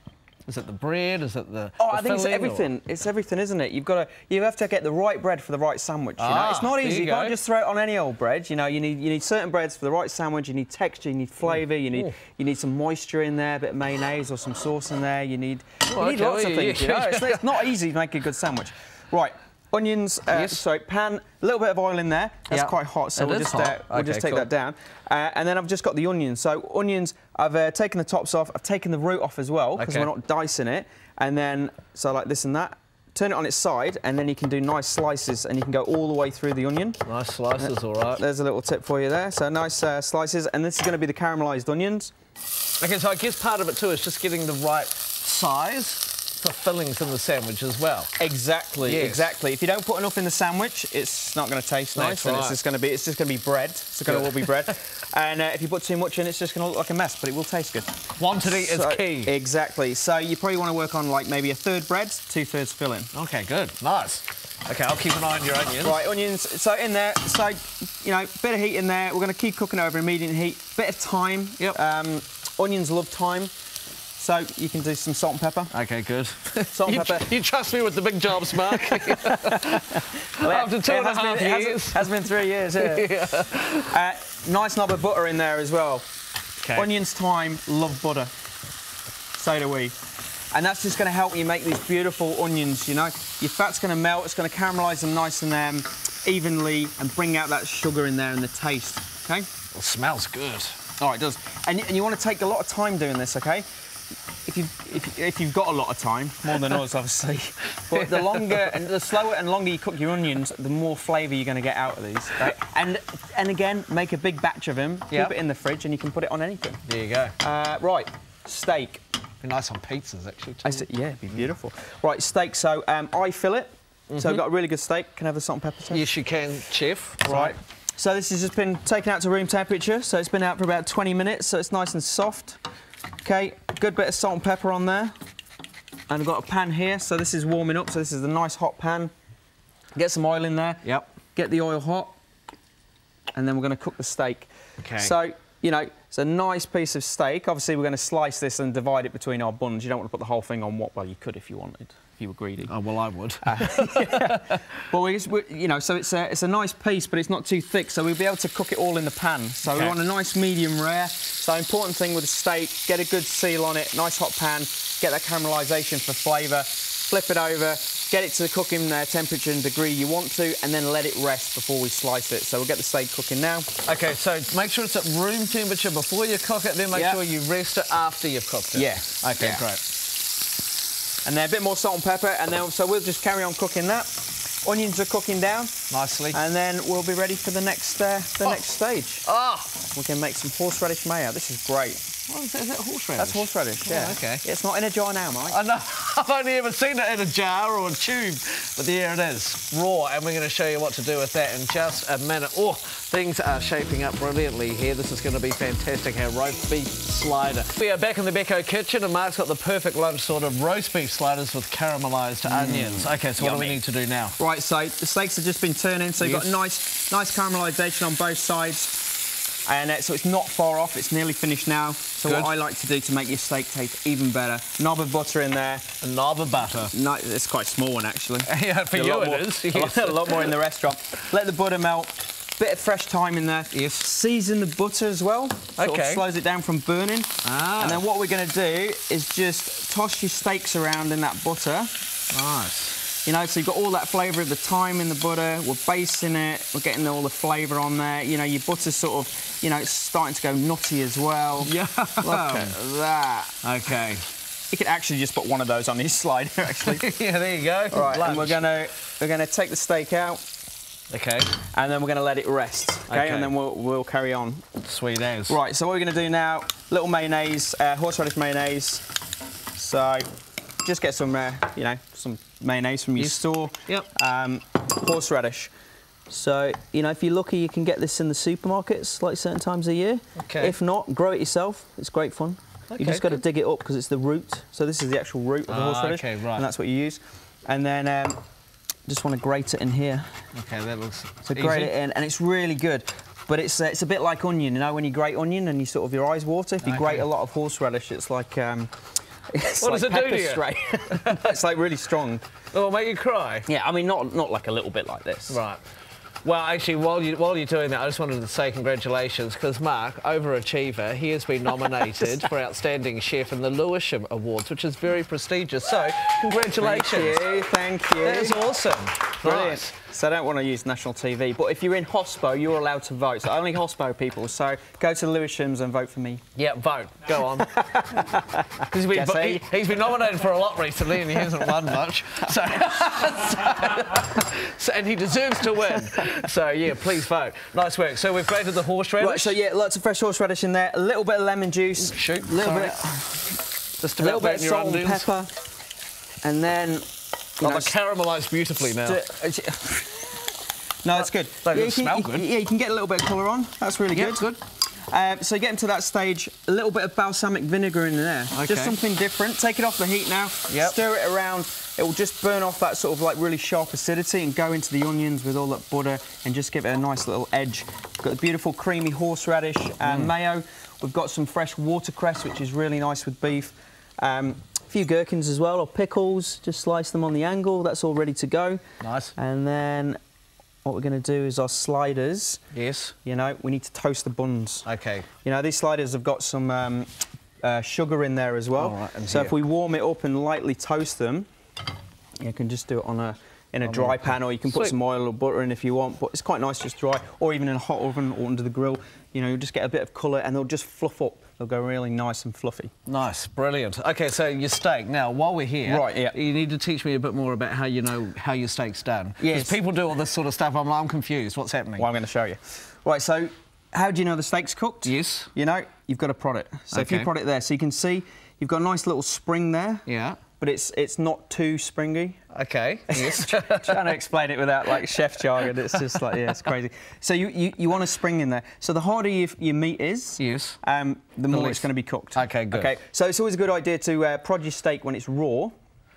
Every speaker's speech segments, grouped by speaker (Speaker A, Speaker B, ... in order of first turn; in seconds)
Speaker A: 0.5-2.7, 6.2-7.3, 15.8-17.6, 20.3-20.6, 22.5-24.5, 29.8-30.1, 37.0-38.2, 42.8-48.1, 48.8-49.3, 51.9-52.6, 54.1-54.5, 58.2-59.3, 63.1-66.0, 75.7-82.1, 82.8-84.0, 86.6-86.9, 99.7-100.8, 107.9-108.8, 116.9-117.3, 119.4-120.8, 124.1-124.4, 125.9-127.6, 144.8-145.1, 152.7-154.6, 159.7-159.9, 173.8-179.9, 185.9-186.4, 189.2-189.7, 192.3-194.4, 195.5-214.4, 216.2-216.5, 222.2-222.5, 226.0-226.9, 228.4-230.5, 233.7-234.0, 235.8-236.2, 237.4-238.0, 242.3-243.0, 251.6-252.7, 253.6-254.2, 256.8-258.6, 261.1-261.6, 263.1-263.5, 264.8-265.6, 273.2-274.1, 280.4-280.7, 282.9-283.4, 285.7-286.6, 290.5-291.9, 296.8-297.2, 299.8-301.6, 302.7-303.7, 305.5-305.8, 306.4-317.4, 318.2-319.9, 326.6-327.8, 328.9-339.6, 342.0-343.2, 344.0-345.3, 347.6-349.2, 351.1-352.4, 354.1-354.6, 358.5-359.0, 360.7-361.0, 370.0-370.3, 379.0-379.3, 382.7-383.1, 384.8-385.3, 388.8-389.5, 393.9-394.9, 403.1-412.1, 415.0-415.5, 416.9-417.3, 420.1-420.4, 422.5-424.1, 424.9-426.7, 430.4-430.8, 431.5-432.9
Speaker B: 1.8-37.0, 37.6-42.1, 48.2-63.1, 65.8-73.5, 74.2-75.7, 76.7-77.3, 78.7-83.1, 83.8-86.0, 86.7-88.3, 89.3-89.9, 90.5-99.5, 101.0-103.7, 104.5-116.8, 117.4-119.0, 120.6-126.1, 127.2-132.6, 133.2-135.1, 136.1-139.1, 139.9-142.1, 143.3-152.7, 153.4-173.7, 176.9-177.2, 178.7-179.7, 181.2-185.7, 186.3-189.3, 189.8-192.0, 193.2-195.6, 212.4-213.8, 214.4-219.1, 219.7-225.8, 226.9-241.9, 243.2-253.6, 254.7-257.1, 257.9-260.4, 261.7-264.6, 265.5-269.0, 269.8-270.2, 270.8-275.7, 276.3-288.4, 289.1-290.3, 291.5-298.9, 299.5-302.4, 303.7-305.6, 316.6-318.6, 319.4-326.4, 327.4-329.8, 331.3-331.7, 336.0-336.3, 339.2-343.6, 344.2-345.5, 346.4-347.1, 347.6-347.9, 348.8-350.5, 351.0-354.5, 355.1-378.8, 379.4-380.2, 380.8-382.6, 383.2-384.9, 385.4-387.1, 387.6-391.5, 392.4-402.9, 405.8-406.4, 409.4-409.8, 412.0-420.1, 420.6-422.4, 423.1-435.7